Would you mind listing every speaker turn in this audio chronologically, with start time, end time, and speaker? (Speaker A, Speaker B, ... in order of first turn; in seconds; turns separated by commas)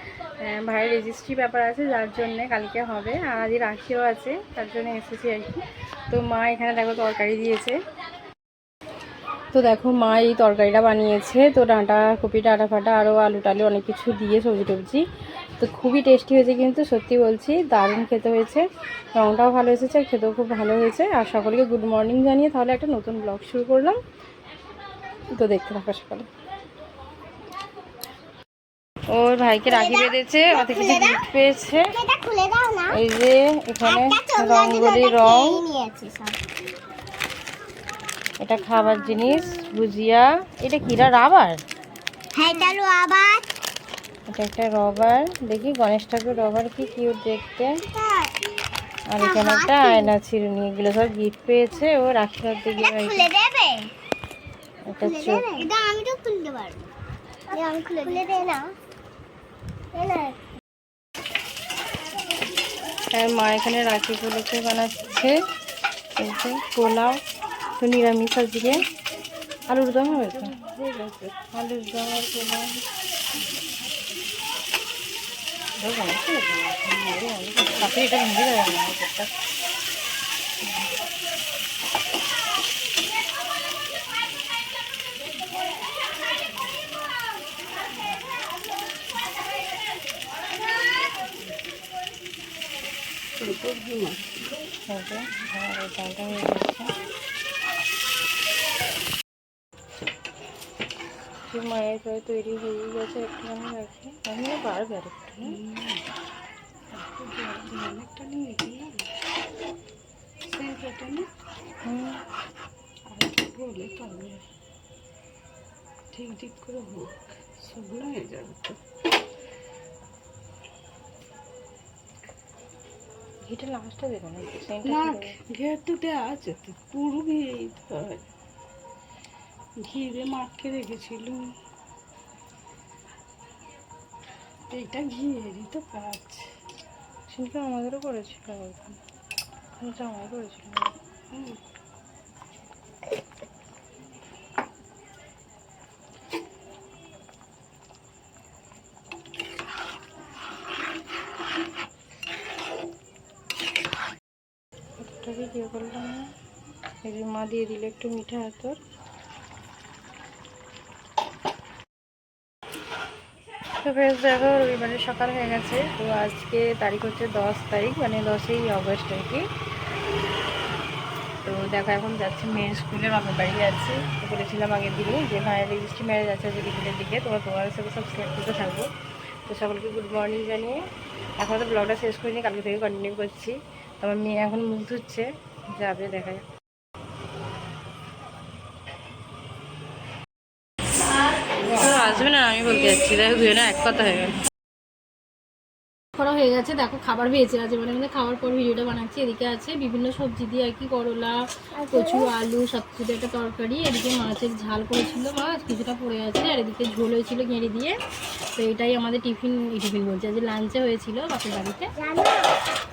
Speaker A: 0.4-7.8, Speaker A: 9.5-15.0, Speaker A: 15.6-24.0, Speaker A: 25.3-26.3, Speaker A: 29.1-31.9, Speaker B: 29.7-31.2, Speaker B: 31.9-33.0, Speaker A: 32.9-35.6, Speaker B: 33.8-36.4, Speaker A: 38.4-41.6, Speaker B: 38.6-39.8, Speaker B: 42.3-43.5, Speaker A: 44.3-47.7, Speaker B: 47.8-48.3, Speaker A: 49.1-53.3, Speaker B: 49.2-50.1, Speaker B: 52.8-53.9, Speaker A: 54.9-55.7, Speaker B: 55.0-56.8, Speaker B: 57.5-58.7, Speaker B: 59.9-60.4, Speaker A: 63.1-65.4, Speaker A: 66.2-67.2, Speaker A: 67.8-68.8, Speaker A: 69.7-72.8, Speaker A: 75.8-79.3, Speaker A: 94.9-96.9, Speaker A: 101.5-105.5, Speaker C: 107.0-108.8, Speaker C: 110.5-111.2, Speaker A: 111.8-112.2, Speaker C: 113.1-114.4, Speaker C: 116.1-117.1, Speaker C: 117.6-118.8, Speaker A: 123.5-125.4, Speaker C: 125.5-128.0, Speaker C: 129.9-131.4, Speaker C: 134.7-136.4, Speaker A: 137.3-139.0, Speaker A: 139.8-140.9, Speaker A: 155.0-156.3, Speaker A: 157.0-158.8, Speaker A: 163.8-169.4, Speaker A: 171.4-178.9, Speaker A: 179.5-180.8, Speaker A: 181.4-186.4, Speaker A: 191.6-194.3, Speaker A: 196.2-208.0, Speaker B: 201.8-202.3, Speaker A: 208.6-211.9, Speaker B: 212.0-212.5